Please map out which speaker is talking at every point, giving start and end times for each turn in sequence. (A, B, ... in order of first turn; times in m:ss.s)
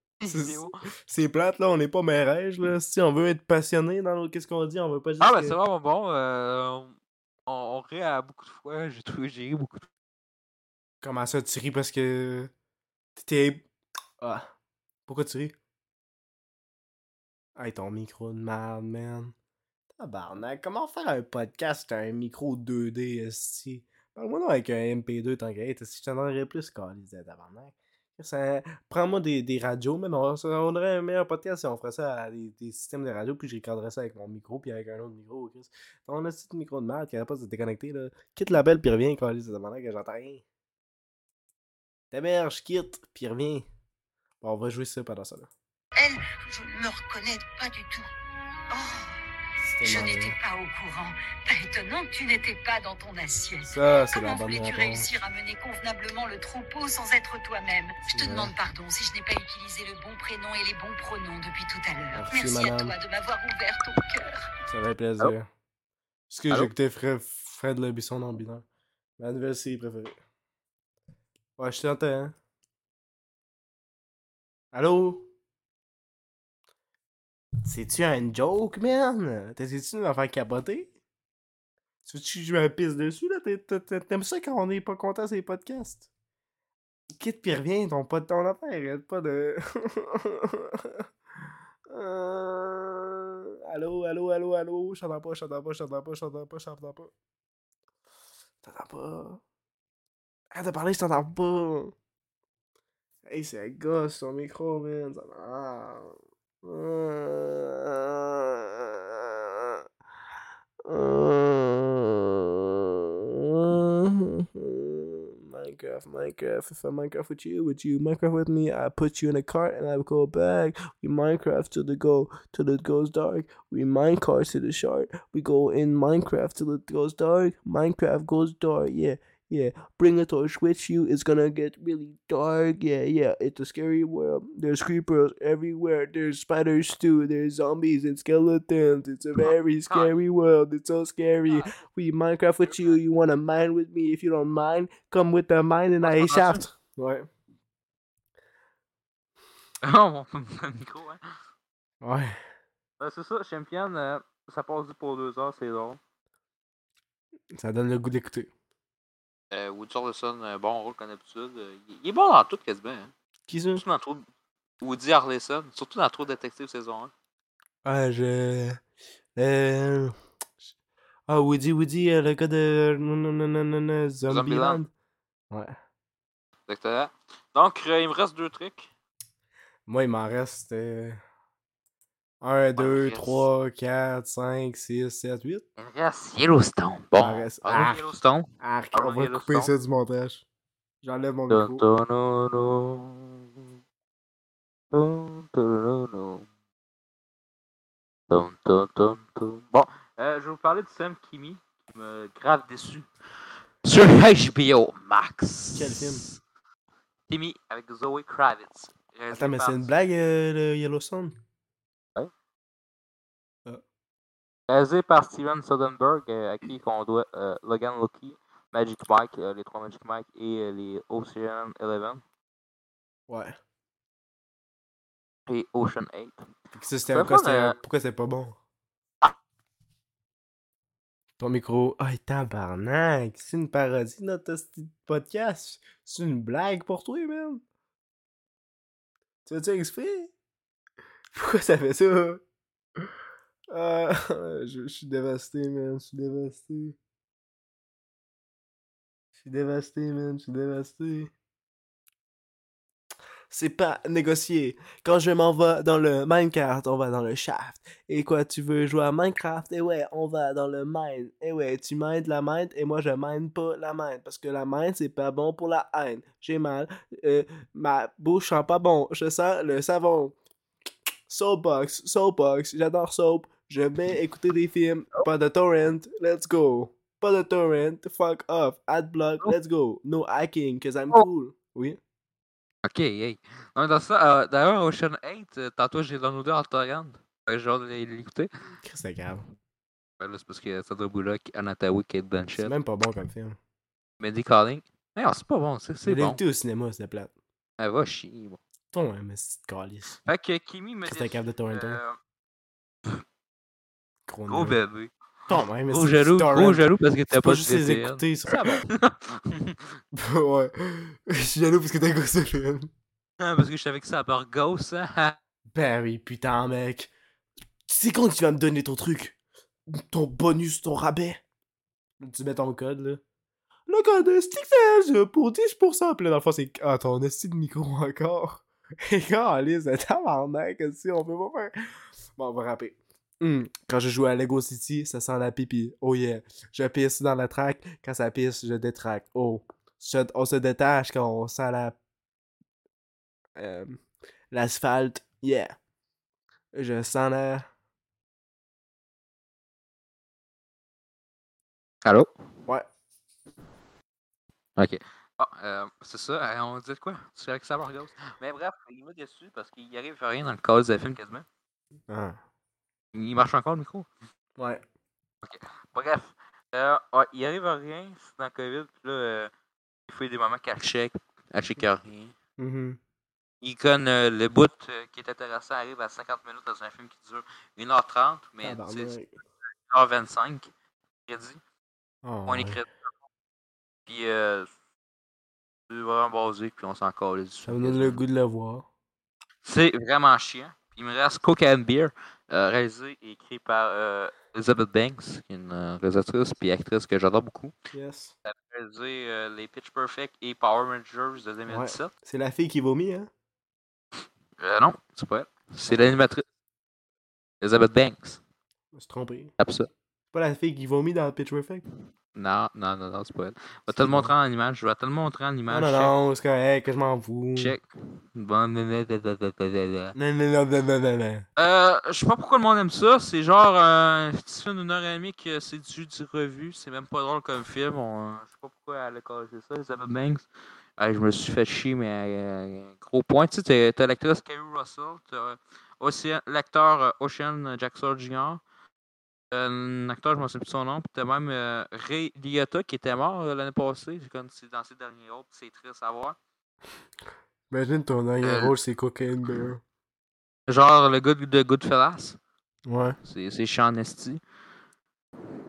0:00.2-0:00.8 A
0:00.3-0:05.6 B
0:05.2-0:09.9 A
0:11.0-0:12.5 B
0:13.2-0:13.7 B
0:14.2-0:14.5 B
0:15.1-0:15.6 B
0:17.6-0:19.4 B
0:19.9-0:40.4 B
0:42.1-0:43.7 B
0:44.4-0:45.5 B
0:46.0-0:48.1 C
0:48.7-0:49.2 C
0:49.6-0:50.4 B
0:49.8-1:04.5 C
0:53.7-0:55.1 B
0:58.1-0:58.5 B
1:02.1-1:03.0 B
1:04.7-1:05.5 B
1:06.3-1:08.7 B
1:09.2-1:10.2 B
1:11.6-1:12.4 B
1:14.7-1:15.3 B
1:17.6-1:20.9 B
1:22.0-1:26.1 B
1:27.2-1:31.1 B
1:31.9-1:37.1 B
1:38.6-1:39.4 B
1:40.5-1:42.0 B
1:43.3-1:49.8 B
1:50.8-2:27.3 B
2:19.9-2:20.1 A
2:21.5-2:21.8 A
2:22.7-2:23.0 A
2:26.0-2:26.6 A
2:29.8-2:31.2 A
2:32.0-2:32.4 B
2:33.0-2:36.0 A
2:37.5-2:38.5 B
2:39.5-2:43.1 A
2:43.5-2:43.8 B
2:43.8-2:44.3 A
2:44.8-2:47.1 A
2:47.8-2:48.8 B
2:49.4-2:50.1 B
2:51.3-2:54.9 B
2:54.3-2:54.8 A
2:56.7-2:58.9 A
2:59.9-3:01.2 B
3:02.4-3:05.6 B
3:02.8-3:03.5 A
3:05.8-3:09.7 A
3:07.2-3:10.4 B
3:11.0-3:11.8 B
3:11.5-3:13.4 A
3:14.9-3:16.5 A
3:18.3-3:23.1 A
3:23.8-3:26.4 A
3:25.7-3:26.2 B
3:27.3-3:29.9 A
3:29.3-3:31.4 B
3:34.7-3:42.2 A
3:43.3-3:43.6 B
3:45.5-3:46.4 A
3:46.7-3:48.6 B
3:47.1-3:47.8 A
3:51.4-3:57.6 B
3:59.5-4:00.3 B
4:01.3-4:02.4 B
4:03.7-4:07.0 B
4:09.4-4:11.3 B
4:13.5-4:30.4 B
4:31.3-4:42.0 B
4:42.8-4:48.5 A
4:48.8-4:49.4 B
4:50.2-4:52.8 A
4:52.6-4:53.6 B
4:54.2-4:56.4 A
4:56.0-4:57.3 B
4:57.8-4:58.6 A
4:58.9-5:00.2 B
5:00.2-5:02.2 A
5:01.1-5:02.0 B
5:04.3-5:04.8 B
5:04.5-5:05.1 A
5:05.5-5:08.8 B
5:05.9-5:09.8 A
5:10.1-5:12.9 B
5:13.4-5:15.4 A
5:15.7-5:17.1 B
5:17.9-5:19.4 B
5:19.9-5:21.4 B
5:22.2-5:23.2 B
5:23.9-5:31.7 B
5:32.4-5:42.0 B
5:43.6-5:45.8 B
5:46.7-5:47.7 B
5:52.0-5:52.3 A
5:54.8-6:01.4 A
6:02.1-6:02.4 B
6:03.1-6:04.1 A
6:04.6-6:04.8 B
6:05.4-6:09.5 A
6:10.1-6:12.4 A
6:12.6-6:13.0 B
6:13.6-6:19.2 A
6:18.6-6:19.3 B
6:19.9-6:20.7 A
6:21.3-6:21.6 A
6:22.2-6:22.8 B
6:22.5-6:22.9 A
6:24.1-6:24.7 A
6:25.9-6:28.2 A
6:27.7-6:28.9 B
6:29.6-6:37.7 A
6:37.9-6:38.3 B
6:38.4-6:42.1 A
6:41.7-6:43.3 B
6:44.6-6:46.4 A
6:45.9-6:46.2 B
6:47.6-6:48.4 A
6:48.9-6:49.5 B
6:49.6-6:49.9 A
6:50.3-6:51.8 B
6:52.4-6:56.1 A
6:53.9-6:54.3 B
6:55.7-6:57.8 B
6:57.6-7:00.2 A
7:00.2-7:01.5 B
7:01.6-7:10.5 A
7:11.0-7:18.6 A
7:19.5-7:26.4 A
7:27.7-7:29.8 B
7:28.4-7:28.8 A
7:30.7-7:32.4 A
7:32.9-7:33.2 B
7:33.2-7:34.4 A